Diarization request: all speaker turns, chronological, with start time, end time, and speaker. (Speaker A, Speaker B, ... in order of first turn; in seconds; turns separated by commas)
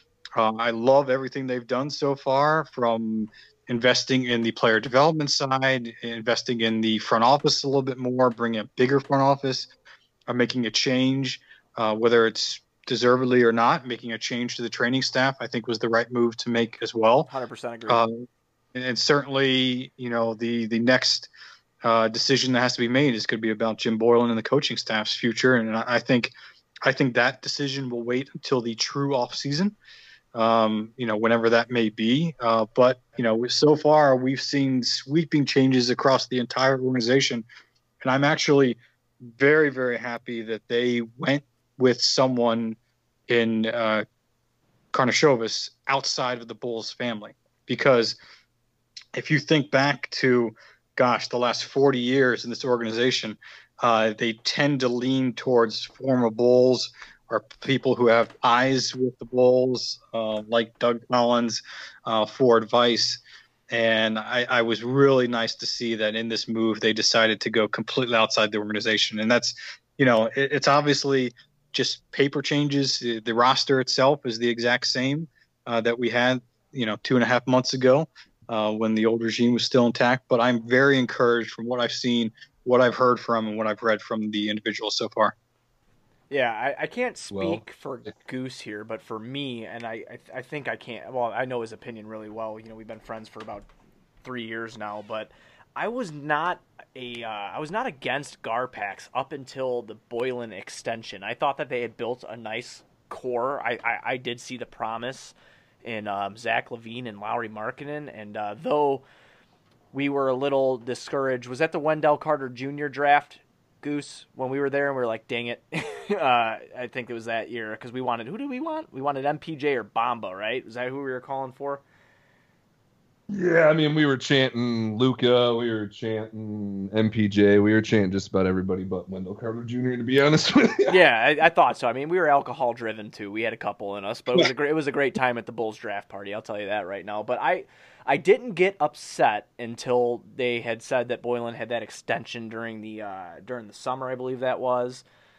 Speaker A: 0.3-9.7, Speaker A: 10.3-17.3, Speaker B: 17.3-18.0, Speaker A: 17.9-18.2, Speaker A: 18.7-21.3, Speaker A: 21.8-29.8, Speaker A: 30.3-37.4, Speaker A: 38.0-42.8, Speaker A: 43.3-44.0, Speaker A: 44.9-48.2, Speaker A: 49.1-85.3, Speaker B: 86.3-93.7, Speaker C: 87.3-87.6, Speaker B: 94.2-109.0, Speaker B: 109.9-121.8, Speaker C: 123.3-131.0, Speaker B: 130.9-145.0